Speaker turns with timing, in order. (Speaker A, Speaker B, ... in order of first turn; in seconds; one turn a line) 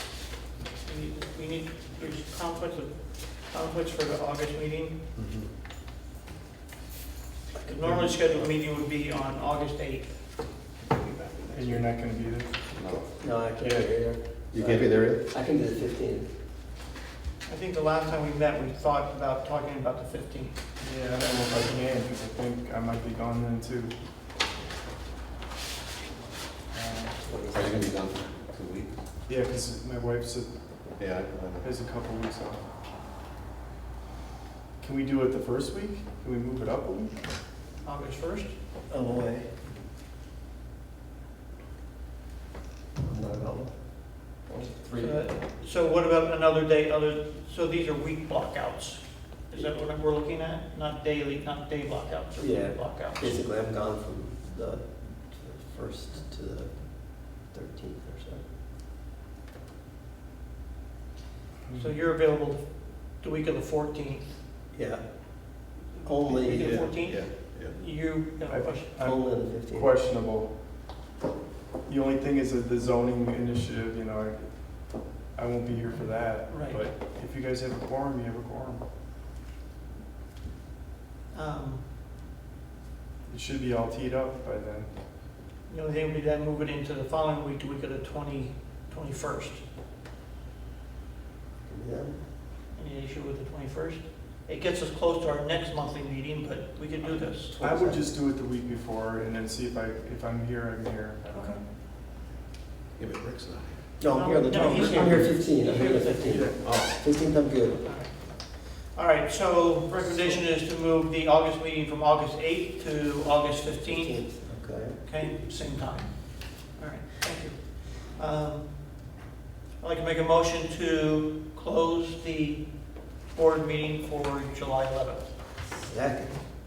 Speaker A: 0.8-5.0
Speaker B: 5.2-5.5
Speaker C: 7.6-8.5
Speaker A: 7.6-10.3
Speaker D: 11.5-12.6
Speaker B: 12.7-13.1
Speaker C: 13.2-16.3
Speaker B: 14.5-15.2
Speaker A: 17.4-20.6
Speaker D: 20.8-23.9
Speaker D: 26.7-27.2
Speaker C: 27.2-27.9
Speaker B: 27.5-28.9
Speaker D: 29.3-30.5
Speaker B: 31.0-31.4
Speaker D: 31.6-32.6
Speaker D: 34.8-37.1
Speaker A: 37.8-38.5
Speaker C: 38.9-39.5
Speaker C: 43.0-45.4
Speaker A: 44.9-53.4
Speaker C: 52.4-58.4
Speaker D: 61.6-62.0
Speaker A: 61.7-64.3
Speaker C: 64.7-67.1
Speaker A: 66.0-68.9
Speaker B: 66.6-67.4
Speaker D: 68.5-70.5
Speaker C: 69.0-69.9
Speaker D: 71.8-78.8
Speaker A: 76.5-76.8
Speaker A: 81.3-81.8
Speaker D: 83.3-84.9
Speaker A: 85.7-89.6
Speaker C: 91.6-92.2
Speaker A: 92.7-97.5
Speaker C: 97.5-98.1
Speaker D: 97.6-101.6
Speaker A: 101.3-101.6
Speaker B: 103.0-103.7
Speaker C: 104.0-107.8
Speaker A: 104.0-106.8
Speaker D: 106.3-106.6
Speaker A: 107.8-119.0
Speaker C: 110.0-110.4
Speaker C: 113.8-115.1
Speaker A: 119.8-125.3
Speaker C: 125.7-126.4